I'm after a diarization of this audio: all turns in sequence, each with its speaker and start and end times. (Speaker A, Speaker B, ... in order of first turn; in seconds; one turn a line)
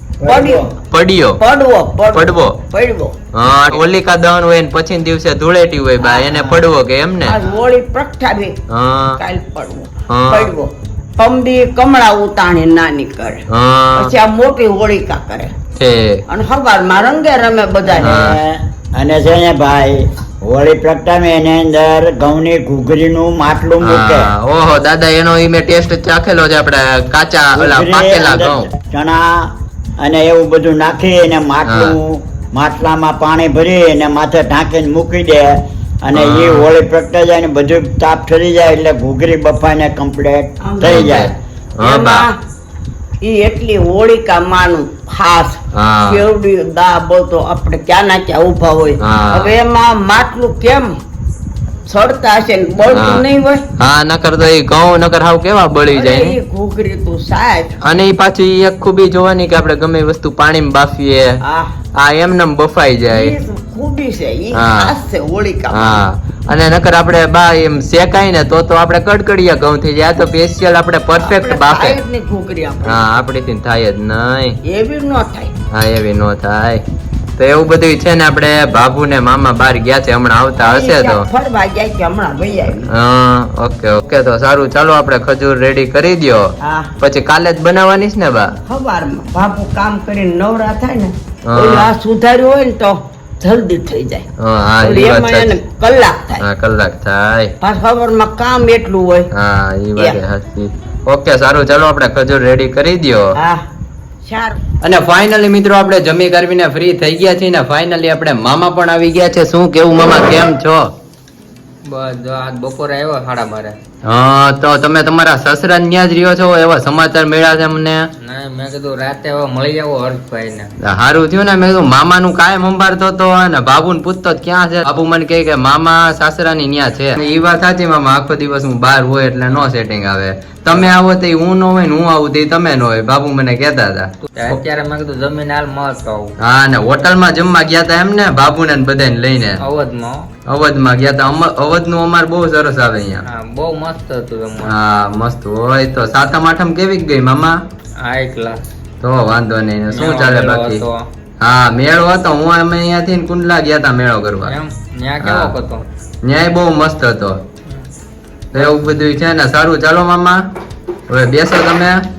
Speaker A: 0.2-0.7
Speaker B: 0.3-0.7
Speaker C: 0.9-1.4
Speaker B: 1.4-3.1
Speaker C: 2.1-2.6
Speaker C: 3.3-7.4
Speaker B: 6.0-6.6
Speaker B: 7.2-8.6
Speaker C: 8.7-9.2
Speaker B: 9.2-13.4
Speaker C: 10.1-10.5
Speaker C: 13.5-14.1
Speaker B: 14.0-15.5
Speaker C: 15.8-16.2
Speaker B: 16.3-18.2
Speaker C: 18.0-18.4
Speaker A: 18.1-24.3
Speaker C: 23.8-28.7
Speaker A: 27.6-41.3
Speaker C: 31.7-31.9
Speaker C: 36.1-36.7
Speaker B: 40.6-41.2
Speaker C: 40.8-42.3
Speaker B: 41.8-42.4
Speaker B: 43.2-51.0
Speaker C: 45.7-46.2
Speaker C: 49.0-49.5
Speaker B: 51.9-53.6
Speaker C: 52.9-53.3
Speaker C: 53.8-56.4
Speaker B: 55.9-57.8
Speaker C: 57.8-61.4
Speaker B: 61.4-61.7
Speaker C: 62.0-63.4
Speaker B: 63.1-66.1
Speaker C: 64.5-65.0
Speaker C: 65.7-72.0
Speaker B: 71.2-73.1
Speaker C: 72.8-74.6
Speaker B: 74.7-75.5
Speaker C: 75.7-76.8
Speaker C: 77.4-81.3
Speaker B: 80.6-82.9
Speaker C: 82.9-86.4
Speaker B: 86.6-86.9
Speaker C: 87.0-88.5
Speaker B: 88.7-94.3
Speaker C: 91.5-91.9
Speaker C: 94.4-95.6
Speaker B: 94.8-96.5
Speaker C: 96.4-97.5
Speaker B: 97.6-99.3
Speaker C: 99.3-103.4
Speaker B: 103.4-103.6
Speaker B: 104.2-104.6
Speaker C: 104.8-110.9
Speaker D: 111.9-113.8
Speaker C: 114.0-118.0
Speaker D: 118.2-120.7
Speaker C: 120.8-134.6
Speaker D: 134.3-136.3
Speaker C: 136.4-139.6
Speaker D: 139.6-140.3
Speaker C: 140.5-143.2
Speaker D: 143.2-144.8
Speaker C: 144.6-147.6
Speaker D: 148.0-148.7
Speaker C: 149.0-150.8
Speaker D: 149.9-151.0
Speaker C: 151.4-154.6
Speaker D: 154.4-155.9
Speaker C: 155.2-155.5
Speaker C: 156.2-157.4
Speaker C: 158.5-160.4
Speaker C: 161.1-162.0